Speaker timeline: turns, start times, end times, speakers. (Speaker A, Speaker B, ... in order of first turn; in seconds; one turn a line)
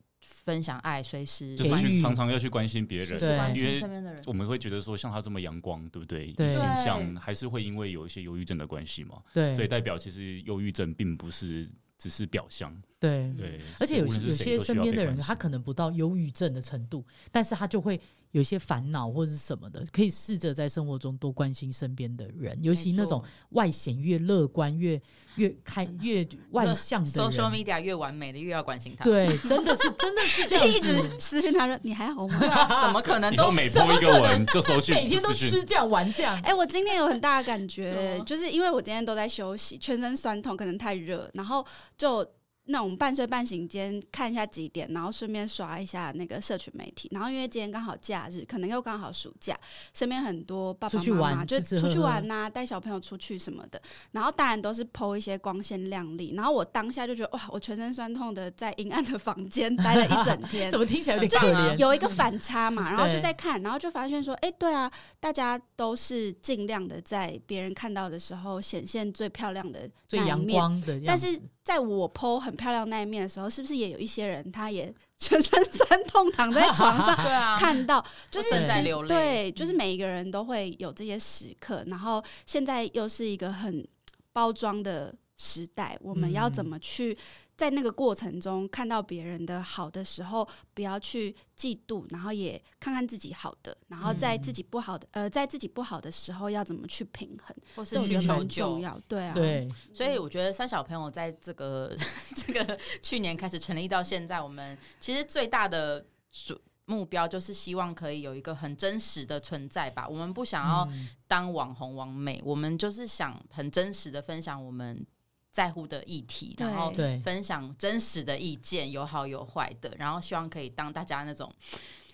Speaker A: 0.2-2.1
Speaker B: 1.6-12.9
Speaker C: 1.6-2.2
Speaker A: 3.0-4.3
Speaker C: 3.2-3.6
Speaker C: 6.4-6.8
Speaker A: 6.5-7.2
Speaker C: 9.3-9.7
Speaker C: 13.0-27.6
Speaker A: 13.3-13.6
Speaker B: 13.4-15.5
Speaker A: 22.7-23.3
Speaker A: 26.6-29.5
Speaker C: 29.0-31.2
Speaker D: 29.8-32.6
Speaker C: 32.3-33.0
Speaker A: 32.4-33.9
Speaker B: 33.1-35.6
Speaker C: 33.6-36.5
Speaker D: 36.4-100.2
Speaker A: 37.9-38.3
Speaker C: 50.9-52.3
Speaker C: 59.8-61.9
Speaker A: 61.1-62.1
Speaker C: 62.9-63.3
Speaker C: 70.1-71.4
Speaker C: 76.5-77.8
Speaker A: 77.1-77.7
Speaker A: 78.3-79.4
Speaker C: 78.5-78.9
Speaker C: 86.1-86.7
Speaker A: 94.0-94.4
Speaker C: 94.0-94.6
Speaker A: 97.8-98.9
Speaker C: 97.9-98.5
Speaker C: 99.3-99.8
Speaker A: 99.4-121.8
Speaker C: 110.6-111.1
Speaker D: 116.6-117.1
Speaker C: 117.0-117.3